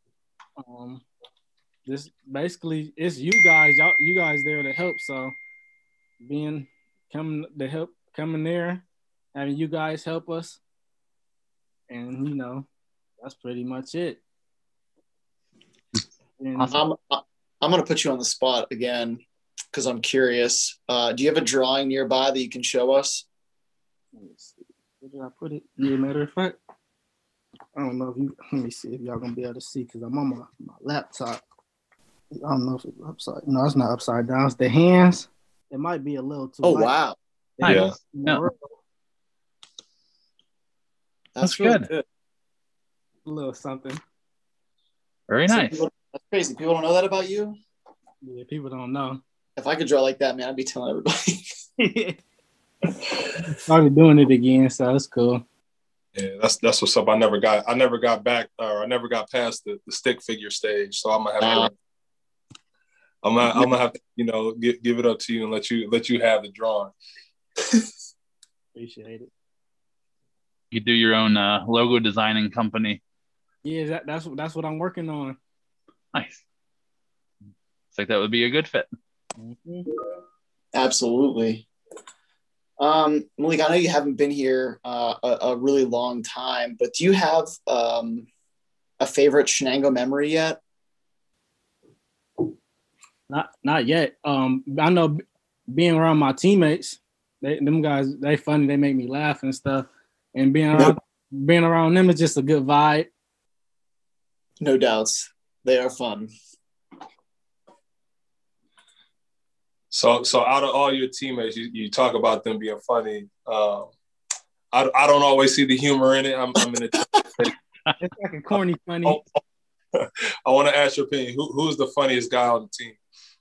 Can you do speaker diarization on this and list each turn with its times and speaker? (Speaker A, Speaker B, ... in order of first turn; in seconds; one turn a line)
Speaker A: 0.6-1.0
Speaker A: 1.9-5.3
Speaker A: 6.2-10.6
Speaker A: 11.9-12.7
Speaker A: 13.2-14.2
Speaker A: 16.4-16.8
Speaker B: 16.7-19.2
Speaker B: 19.7-23.2
Speaker A: 24.1-26.6
Speaker A: 27.7-31.4
Speaker A: 32.3-36.9
Speaker B: 36.6-37.2
Speaker A: 37.6-38.7
Speaker C: 37.6-38.4
Speaker D: 37.6-37.9
Speaker B: 41.3-42.0
Speaker C: 41.4-41.9
Speaker A: 43.2-44.0
Speaker C: 45.3-45.8
Speaker B: 45.5-47.6
Speaker A: 48.2-49.2
Speaker B: 49.6-51.4
Speaker A: 51.8-52.2
Speaker A: 53.4-55.4
Speaker D: 56.1-61.7
Speaker B: 61.4-61.7
Speaker D: 63.2-66.9
Speaker A: 68.7-69.3
Speaker C: 70.7-73.0
Speaker A: 73.6-75.4
Speaker C: 76.1-76.4
Speaker C: 77.9-78.9
Speaker A: 79.4-79.9
Speaker B: 80.7-81.7
Speaker B: 82.8-88.3
Speaker B: 89.0-90.6
Speaker A: 93.3-103.1
Speaker B: 104.6-106.3
Speaker D: 109.9-113.9
Speaker D: 114.7-117.5
Speaker A: 118.0-119.2
Speaker D: 119.0-119.4
Speaker D: 119.9-123.0